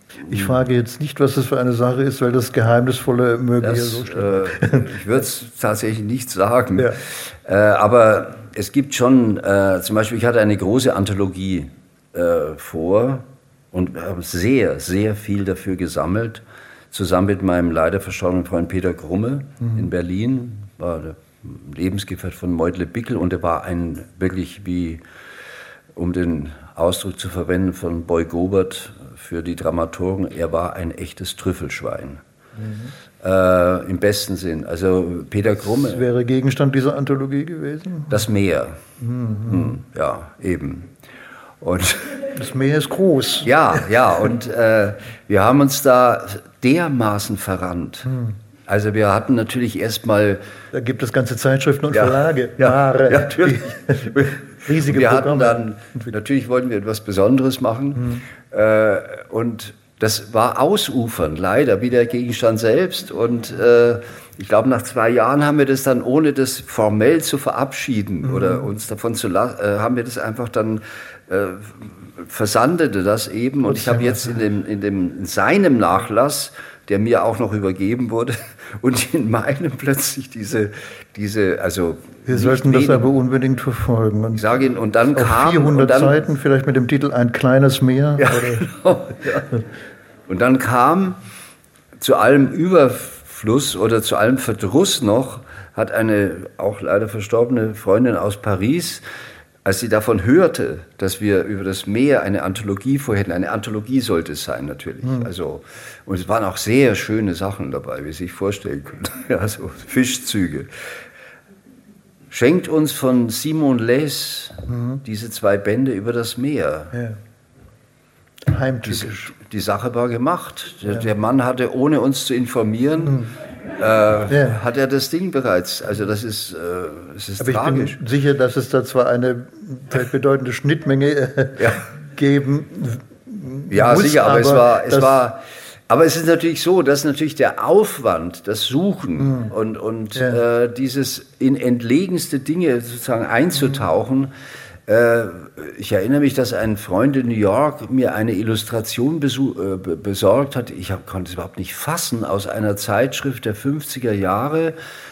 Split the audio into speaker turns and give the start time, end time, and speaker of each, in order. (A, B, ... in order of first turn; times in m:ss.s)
0:00.2-0:00.5 A
0:00.3-0:04.9 B
0:03.6-0:25.0 A
0:25.9-0:32.2 A
0:32.6-0:32.9 B
0:33.2-0:36.0 A
0:35.6-0:38.2 B
0:38.1-0:38.8 A
0:39.0-0:39.8 B
0:39.5-0:40.9 A
0:41.6-0:42.3 A
0:42.3-0:43.6 B
0:43.4-0:50.4 A
0:50.7-0:56.1 B
0:51.9-1:23.1 A
1:13.7-1:14.3 B
1:22.3-1:24.5 B
1:24.3-1:26.2 A
1:25.1-1:28.7 B
1:28.2-1:29.6 A
1:30.3-1:31.2 A
1:32.0-1:39.0 A
1:39.6-1:50.7 A
1:52.3-1:56.9 A
1:54.7-1:55.0 B
1:56.9-1:57.2 B
1:58.4-1:59.3 B
1:58.9-2:08.0 A
2:03.0-2:03.3 B
2:04.3-2:04.6 B
2:07.4-2:15.2 B
2:11.6-2:11.8 A
2:13.7-2:24.3 A
2:24.9-2:34.8 A